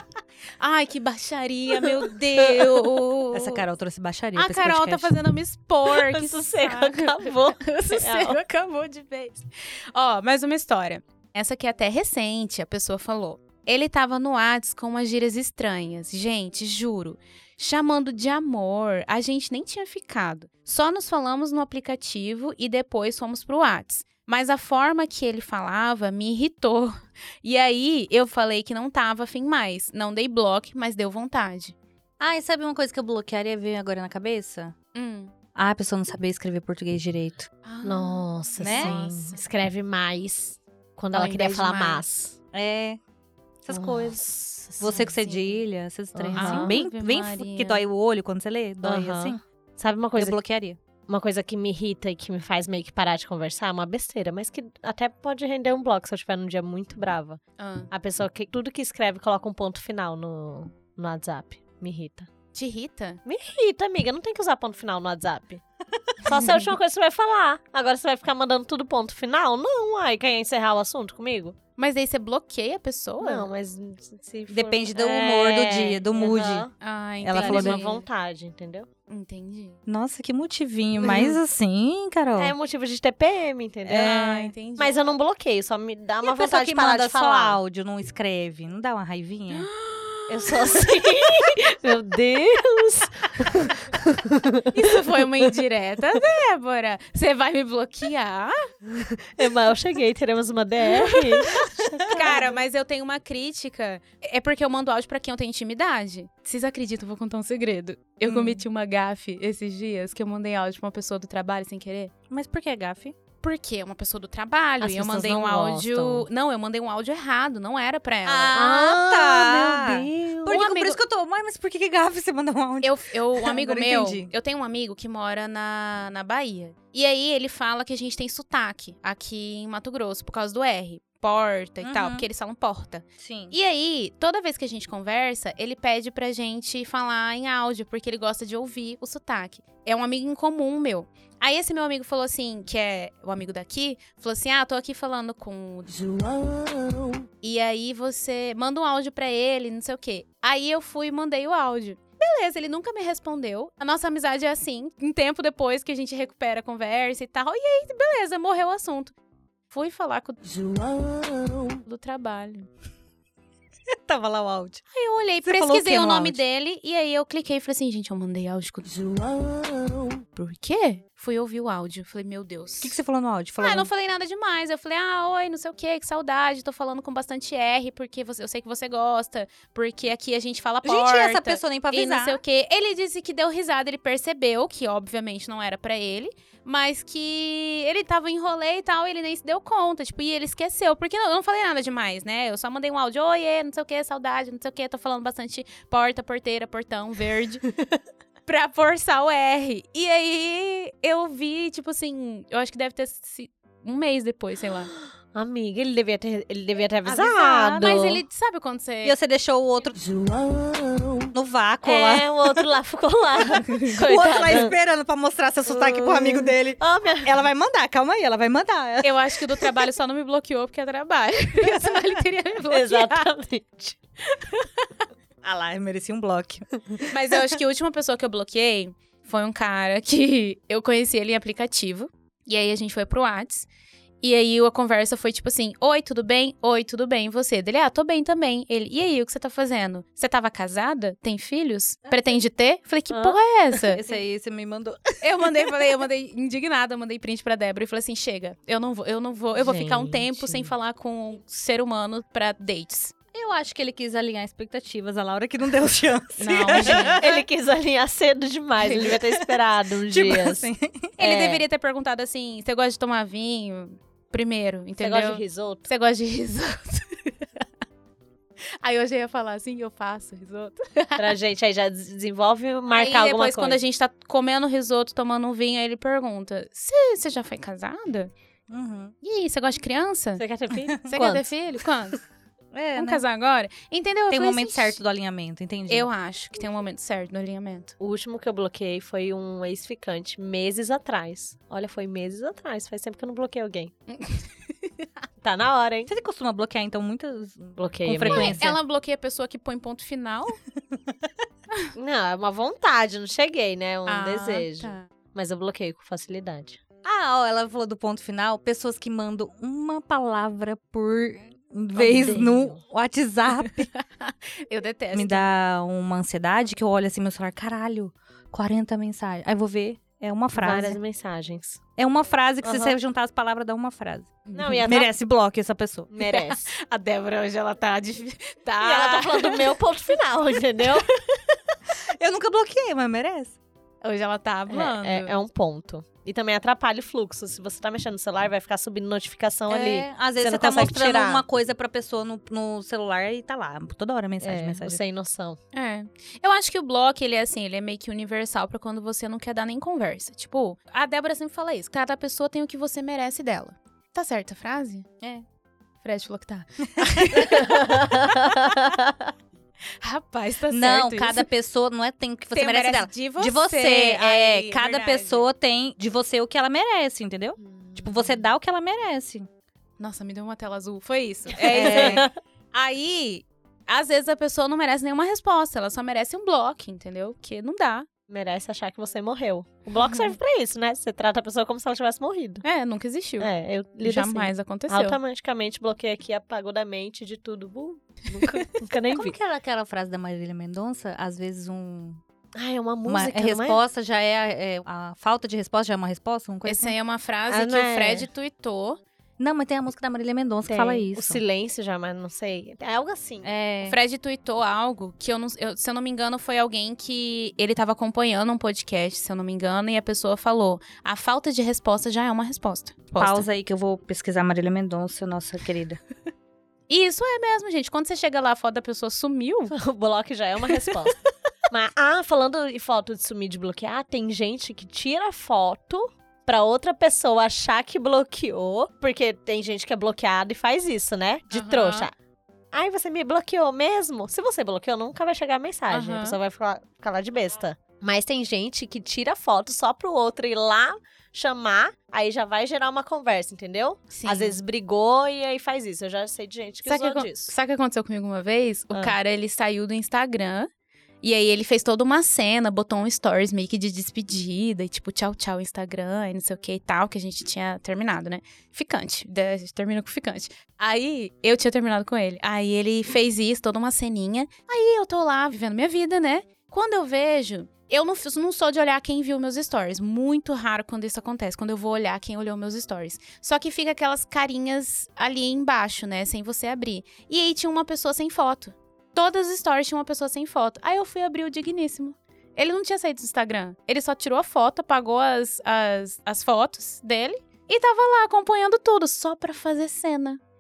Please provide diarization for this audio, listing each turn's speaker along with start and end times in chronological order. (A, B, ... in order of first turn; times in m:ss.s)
0:00.6-0:03.6 A
0:03.3-0:05.2 B
0:04.3-0:31.8 A
0:05.9-0:08.4 C
0:32.2-0:34.7 B
0:34.9-0:35.3 A
0:35.6-0:37.5 B
0:37.6-0:39.4 A
0:37.8-0:42.4 C
0:38.6-0:39.0 B
0:41.1-0:42.0 A
0:42.5-0:43.0 B
0:43.6-0:44.2 B
0:43.7-0:45.0 C
0:44.8-0:49.4 B
0:44.8-0:45.6 A
0:46.1-0:46.8 C
0:46.3-0:47.8 A
0:48.8-0:50.4 C
0:50.1-0:50.8 B
0:51.1-1:02.3 C
0:57.6-0:57.9 A
1:02.5-1:03.2 A
1:03.2-1:05.6 C
1:06.2-1:11.6 C
1:11.8-1:13.5 A
1:13.2-1:16.7 C
1:14.5-1:16.7 B
1:16.8-1:18.0 A
1:17.2-1:17.8 B
1:17.3-1:18.9 C
1:19.1-1:19.8 A
1:19.9-1:22.5 B
1:21.0-1:21.4 C
1:22.4-1:27.6 C
1:23.8-1:24.5 B
1:24.0-1:25.0 A
1:26.2-1:29.7 B
1:29.5-1:30.5 A
1:30.3-1:34.3 C
1:34.7-1:38.5 A
1:39.0-1:42.6 C
1:42.1-1:52.1 A
1:48.3-1:48.6 B
1:52.3-1:53.1 B
1:53.4-1:58.5 A
1:54.8-1:56.2 C
1:58.2-2:04.3 B
1:58.5-2:00.4 C
2:00.4-2:01.0 A
2:02.8-2:26.1 A
2:11.8-2:12.3 B
2:13.2-2:13.5 B
2:27.4-2:39.1 A
2:39.7-2:40.4 A
2:41.8-2:42.7 A
2:44.0-2:44.8 B
2:44.9-2:49.0 A
2:45.4-2:46.4 B
2:50.3-2:53.0 A
2:52.8-2:53.9 B
2:53.6-3:17.6 A
3:00.8-3:02.4 B
3:18.4-3:24.9 A
3:25.3-3:28.2 C
3:27.0-3:28.0 B
3:27.7-3:29.2 A
3:29.0-3:30.0 B
3:30.6-3:31.2 C
3:31.3-3:32.6 B
3:31.8-3:34.7 C
3:33.6-3:39.7 B
3:33.7-3:34.0 A
3:35.6-3:37.4 C
3:39.0-3:43.3 A
3:41.6-3:42.2 B
3:42.7-3:44.0 C
3:44.4-3:44.6 A
3:45.4-3:47.6 B
3:47.1-3:53.7 A
3:54.2-4:04.0 A
4:03.1-4:03.4 C
4:03.8-4:05.0 B
4:05.2-4:13.1 A
4:09.5-4:10.7 C
4:13.3-4:17.4 B
4:16.4-4:17.3 A
4:16.7-4:20.7 C
4:18.8-4:19.2 A
4:18.9-4:19.6 B
4:20.1-4:21.2 B
4:21.2-4:27.5 A
4:21.2-4:21.6 C
4:25.0-4:25.9 C
4:28.8-4:31.3 A
4:31.2-4:33.8 C
4:32.9-4:38.3 A
4:38.7-4:39.1 B
4:39.2-4:40.4 A
4:40.4-4:41.6 C
4:41.1-4:42.2 A
4:42.7-4:43.2 B
4:42.9-4:45.0 A
4:44.3-4:46.1 B
4:45.9-4:47.9 A
4:48.0-4:53.9 C
4:54.1-4:55.0 A
4:55.4-4:56.1 C
4:56.1-4:58.8 B
4:57.8-4:58.6 C
4:58.3-5:00.6 A
5:02.0-5:06.8 C
5:04.1-5:05.1 A
5:07.0-5:13.9 B
5:11.9-5:12.8 C
5:14.2-5:15.5 A
5:15.1-5:21.0 B
5:20.5-5:21.8 C
5:22.0-5:26.1 B
5:22.6-5:23.0 C
5:24.4-5:24.9 A
5:24.5-5:25.1 C
5:26.1-5:26.7 C
5:26.2-5:29.7 A
5:28.8-5:31.1 C
5:32.2-5:33.5 B
5:34.0-5:35.4 A
5:34.7-5:41.4 C
5:39.7-5:45.0 B
5:44.4-5:45.6 C
5:45.7-5:55.0 A
5:56.0-5:58.1 A
5:57.0-5:57.6 B
5:57.7-5:59.1 C
6:00.0-6:01.4 A
6:00.7-6:09.5 B
6:02.5-6:05.5 A
6:07.6-6:08.5 C
6:10.0-6:18.1 A
6:11.5-6:12.3 B
6:11.8-6:12.3 C
6:18.3-6:22.6 C
6:20.0-6:20.3 A
6:22.6-6:25.2 A
6:23.4-6:29.4 C
6:28.4-6:28.6 A
6:29.1-6:32.2 B
6:32.5-6:33.8 C
6:33.0-6:36.9 B
6:36.6-6:39.0 A
6:37.5-6:38.3 C
6:39.4-6:41.4 B
6:40.6-6:43.5 C
6:43.4-6:44.0 B
6:43.8-6:53.5 A
6:53.2-6:56.0 B
6:56.9-6:59.7 A
6:59.7-7:01.2 C
7:01.7-7:12.1 C
7:11.5-7:12.1 A
7:12.7-7:27.5 C
7:15.9-7:16.4 A
7:24.1-7:24.6 A
7:26.8-7:30.7 A
7:31.2-8:10.4 A